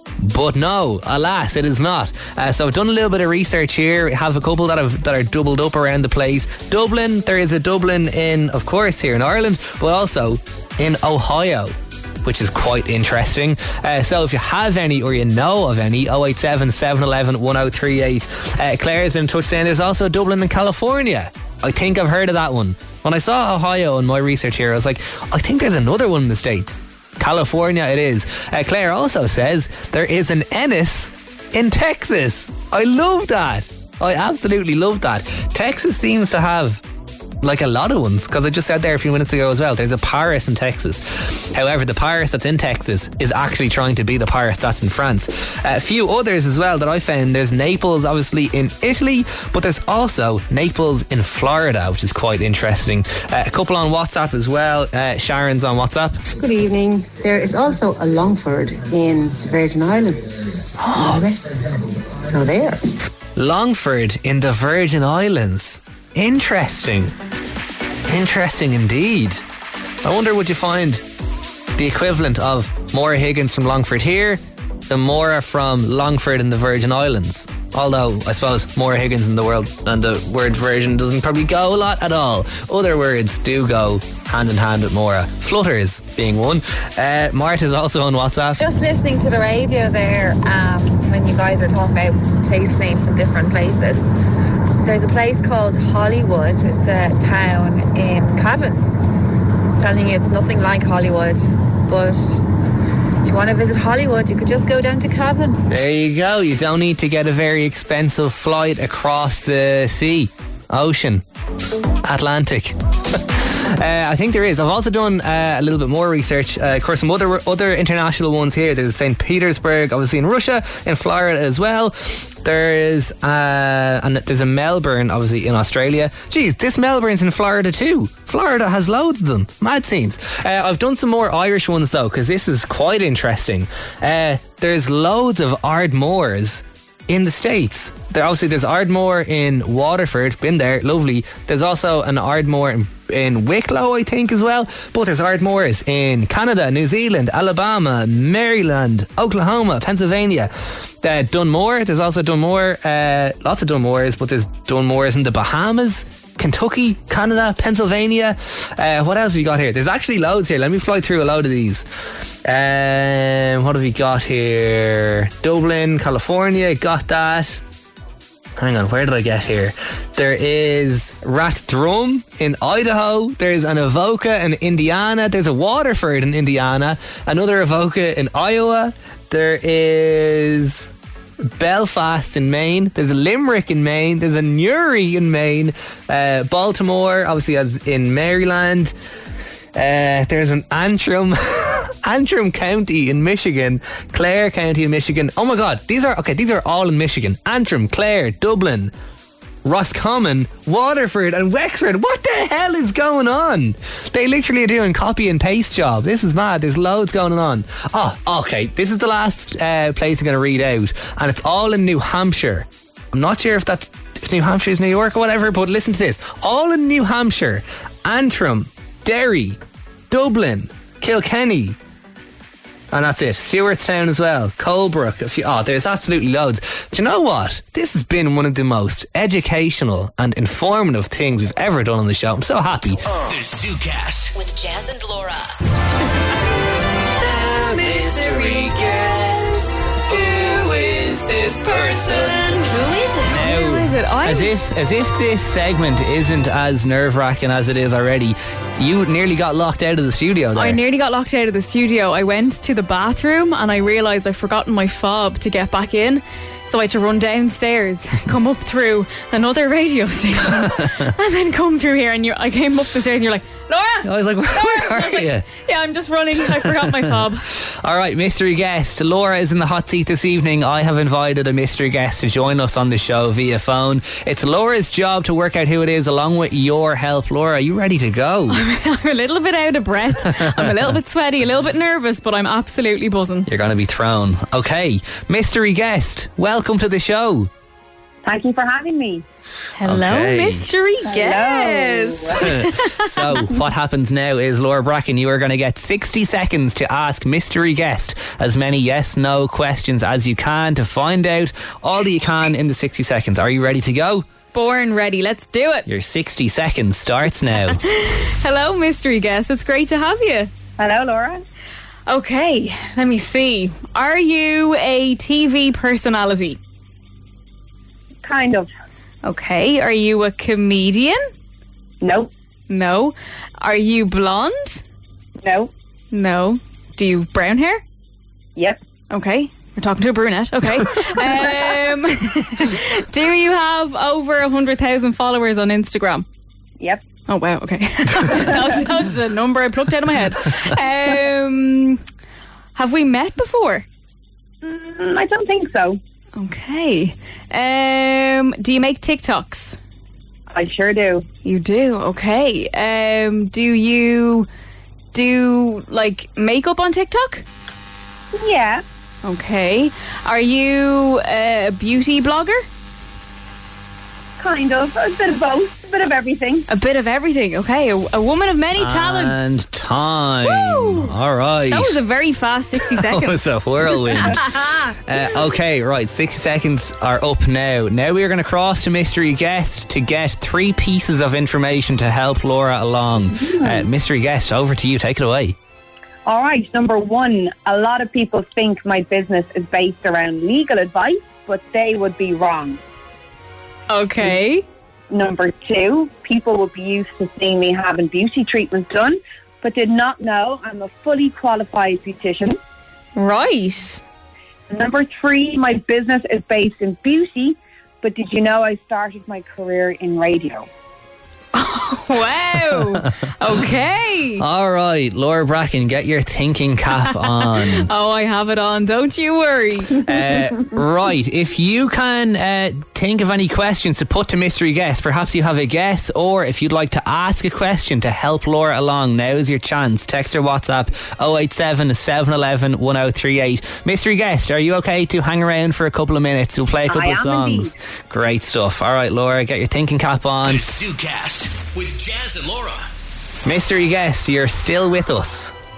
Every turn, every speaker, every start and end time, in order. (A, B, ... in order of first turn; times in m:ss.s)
0:00.2-0:36.8 A
0:37.4-0:56.2 A
0:56.4-1:02.8 B
1:00.8-1:01.2 A
1:03.4-1:07.1 A
1:08.1-1:09.4 A
1:10.0-1:11.0 A
1:11.8-1:28.6 A
1:28.6-1:34.1 C
1:34.8-1:38.9 C
1:39.8-1:42.4 C
1:43.2-1:45.6 C
1:45.7-1:51.2 A
1:52.0-2:41.9 A
2:42.4-2:47.6 A
2:48.6-3:08.9 A
3:09.8-3:18.9 A
3:19.6-3:39.6 A
3:40.1-3:41.8 A
3:42.9-3:53.0 A
3:53.2-3:54.4 D
3:54.4-3:55.5 E
3:57.2-4:02.6 A
4:02.6-4:03.4 E
4:03.3-4:10.8 A
4:03.3-4:04.5 F
4:10.6-4:27.5 F
4:20.6-4:20.9 A
4:24.0-4:25.5 A
4:26.4-4:38.6 A
4:38.5-4:43.5 F
4:40.3-4:40.8 A
4:43.5-4:47.5 A
4:48.2-4:49.2 G
4:49.8-4:53.4 F
4:49.8-4:50.7 A
4:51.0-4:52.5 G
4:52.4-5:04.3 A
5:04.5-5:05.9 F
5:05.9-5:07.8 A
5:07.7-5:10.5 F
5:10.8-5:11.4 G
5:12.1-5:16.6 F
5:18.2-5:18.7 G
5:19.2-5:21.3 F
5:22.0-5:22.3 G
5:22.7-5:24.8 F
5:25.4-5:25.7 G
5:26.1-5:27.8 F
5:29.1-5:36.3 F
5:31.2-5:31.8 G
5:37.3-5:42.0 F
5:38.4-5:38.8 G
5:42.8-5:43.9 F
5:44.6-5:46.0 G
5:46.4-5:49.8 F
5:50.5-5:51.3 G
5:51.4-5:54.5 F
5:55.1-5:57.4 F
5:58.3-5:58.8 G
5:59.2-6:02.7 F
6:04.4-6:06.7 G
6:06.7-6:09.4 F
6:08.8-6:12.0 A
6:10.5-6:11.1 F
6:11.7-6:13.4 F
6:12.8-6:25.6 A
6:14.1-6:14.9 F
6:23.4-6:23.9 G
6:26.3-6:32.8 G
6:33.9-6:34.6 F
6:35.1-6:42.6 G
6:43.2-6:44.0 F
6:44.7-6:50.7 G
6:51.5-6:54.4 F
6:52.8-6:53.1 A
6:54.4-6:57.9 A
6:57.5-7:00.0 F
7:00.0-7:20.7 A
7:16.9-7:17.7 G
7:20.5-7:22.8 D
7:23.4-7:25.5 A